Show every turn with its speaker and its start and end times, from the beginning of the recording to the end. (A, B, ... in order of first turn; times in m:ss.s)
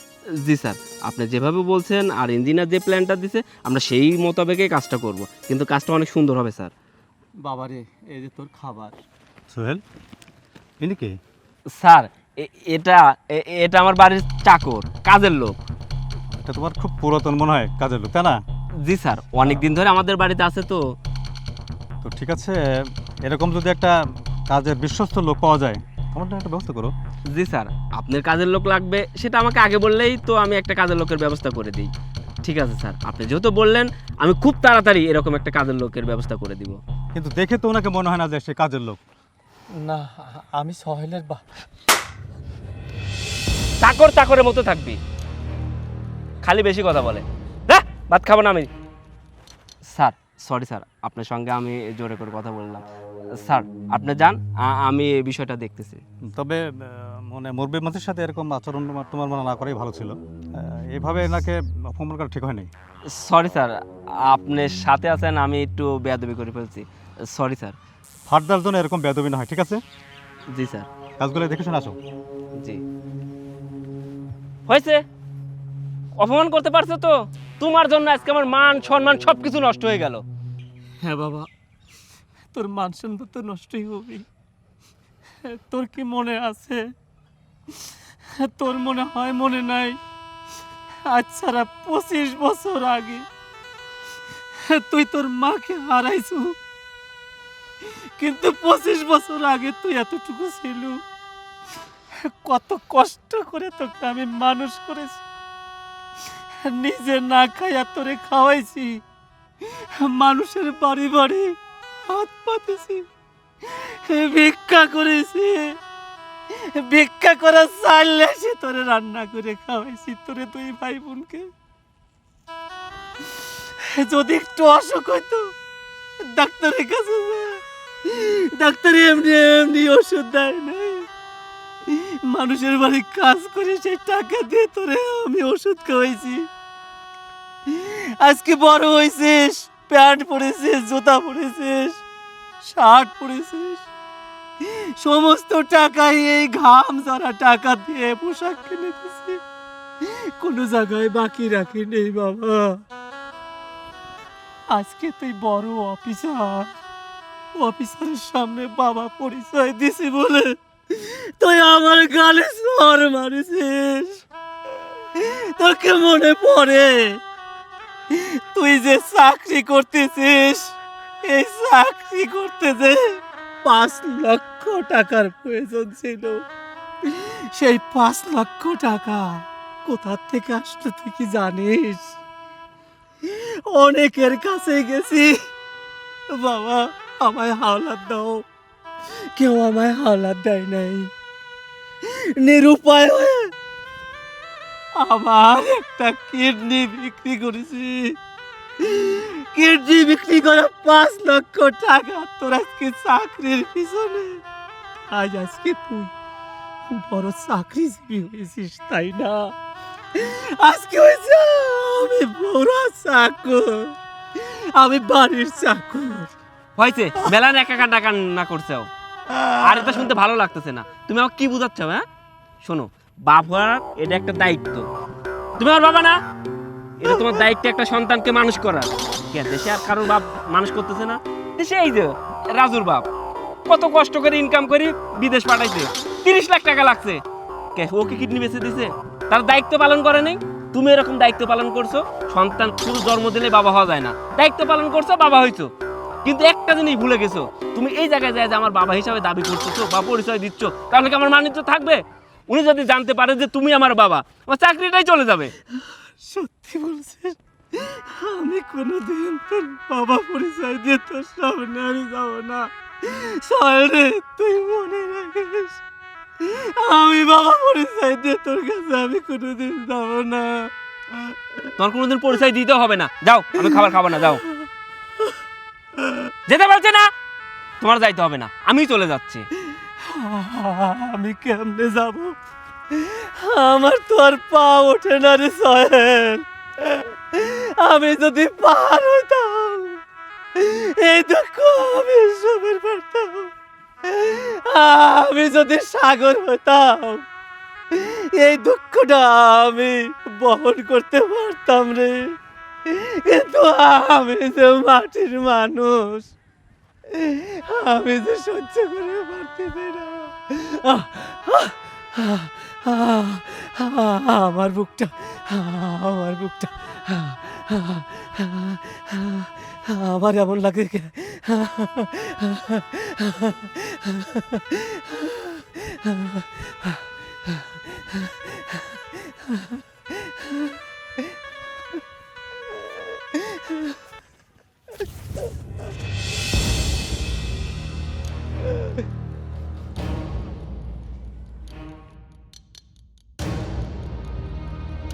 0:00.4-0:06.7 A
0:07.4-0:09.0 B
0:09.5-0:09.8 C
0:10.8-0:11.1 C
0:11.8-0:15.5 A
0:16.3-0:18.4 C
0:18.8-0:20.8 A
0:22.0-0:22.5 C
0:23.2-0:23.9 C
0:24.5-0:26.9 C
0:27.3-0:31.9 A
0:32.4-0:36.8 A
0:37.1-0:39.0 C
0:39.8-0:41.4 B
0:43.8-0:45.0 A
0:46.4-0:48.7 A
0:49.9-0:52.8 A
0:53.4-0:56.0 A
0:56.3-1:02.7 C
1:03.2-1:03.8 A
1:04.3-1:07.8 A
1:08.3-1:09.8 C
1:10.5-1:10.9 A
1:11.2-1:12.0 C
1:14.7-1:15.0 A
1:16.2-1:20.2 A
1:21.0-1:21.5 B
1:22.5-1:24.2 B
1:25.4-1:26.8 B
1:28.4-1:30.0 B
1:31.1-1:33.2 B
1:34.7-1:36.5 B
1:38.2-1:41.0 B
1:42.3-1:45.2 B
1:46.6-1:49.0 B
1:50.0-1:51.5 B
1:52.1-1:53.0 B
1:53.6-1:55.7 B
1:56.7-2:01.5 B
2:03.9-2:05.5 B
2:06.2-2:11.0 B
2:11.9-2:16.4 B
2:17.7-2:22.0 B
2:22.6-2:23.9 B
2:25.0-2:29.4 B
2:30.0-2:32.8 B
2:34.7-2:36.7 B
2:37.6-2:44.2 B
2:45.2-2:47.2 B
2:48.1-2:56.4 B
2:57.0-3:02.2 B
3:03.2-3:05.4 B
3:06.3-3:08.4 B
3:09.4-3:11.1 B
3:12.0-3:13.5 B
3:15.0-3:18.2 B
3:18.8-3:24.4 B
3:25.1-3:26.1 B
3:26.9-3:29.5 B
3:30.1-3:36.3 B
3:36.8-3:38.9 A
3:39.6-3:42.0 A
3:42.6-3:44.9 A
3:45.6-3:46.2 A
3:47.0-3:53.0 A
3:53.7-3:57.2 A
3:57.8-4:05.7 A
4:06.2-4:15.5 A
4:16.3-4:25.8 B
4:26.4-4:30.7 B
4:31.8-4:34.4 A
4:33.6-4:34.4 B
4:36.5-4:37.1 A
4:37.8-4:39.4 A
4:40.1-4:42.3 B
4:42.9-4:50.0 B
4:50.6-4:53.5 B
4:54.1-4:57.2 B
4:57.9-5:02.2 B
5:02.9-5:06.3 B
5:07.1-5:29.8 B